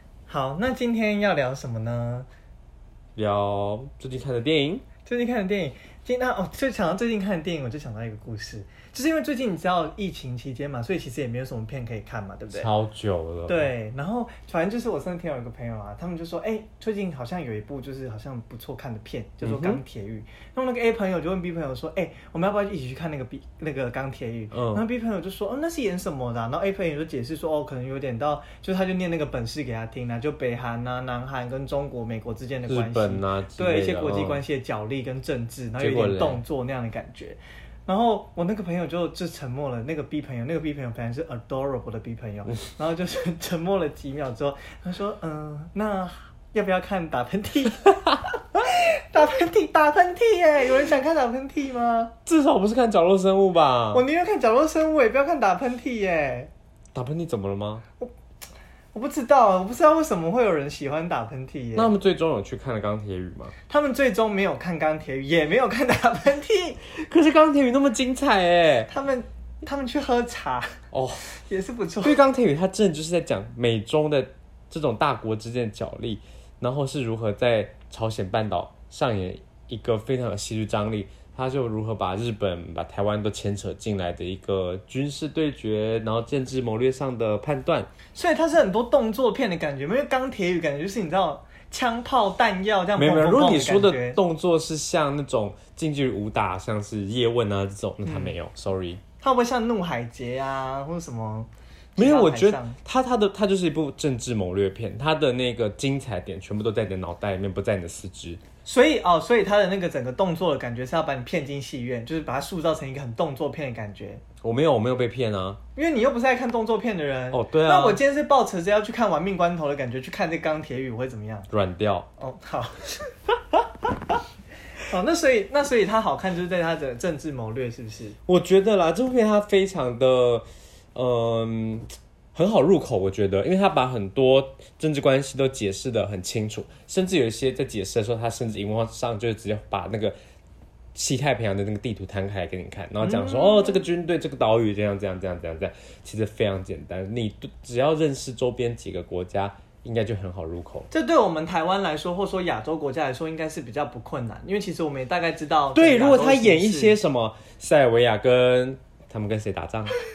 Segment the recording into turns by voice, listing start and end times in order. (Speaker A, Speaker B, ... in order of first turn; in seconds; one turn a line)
Speaker A: 0.3-2.3
Speaker B: 3.1-4.8
Speaker A: 5.0-12.7
Speaker B: 12.5-13.7
Speaker A: 13.5-52.1
Speaker B: 19.4-19.8
Speaker B: 24.5-24.8
Speaker B: 32.7-34.4
Speaker B: 35.8-36.4
Speaker B: 52.2-54.0
Speaker A: 53.9-56.5
Speaker B: 56.9-57.8
Speaker A: 58.9-61.9
Speaker B: 61.8-63.5
Speaker A: 63.7-66.8
Speaker B: 66.9-68.9
Speaker A: 68.9-72.2
Speaker B: 70.9-71.3
Speaker B: 72.0-87.9
Speaker A: 88.1-94.2
Speaker B: 93.0-99.0
Speaker A: 98.0-98.3
Speaker A: 99.2-102.8
Speaker B: 102.0-108.4
Speaker A: 108.6-114.2
Speaker B: 114.4-115.6
Speaker A: 115.7-121.5
Speaker B: 117.3-118.0
Speaker B: 121.5-122.1
Speaker A: 122.2-123.1
Speaker A: 124.9-128.2
Speaker B: 128.2-140.1
Speaker B: 140.9-150.9
Speaker A: 143.0-143.9
Speaker A: 150.9-157.0
Speaker B: 155.7-159.9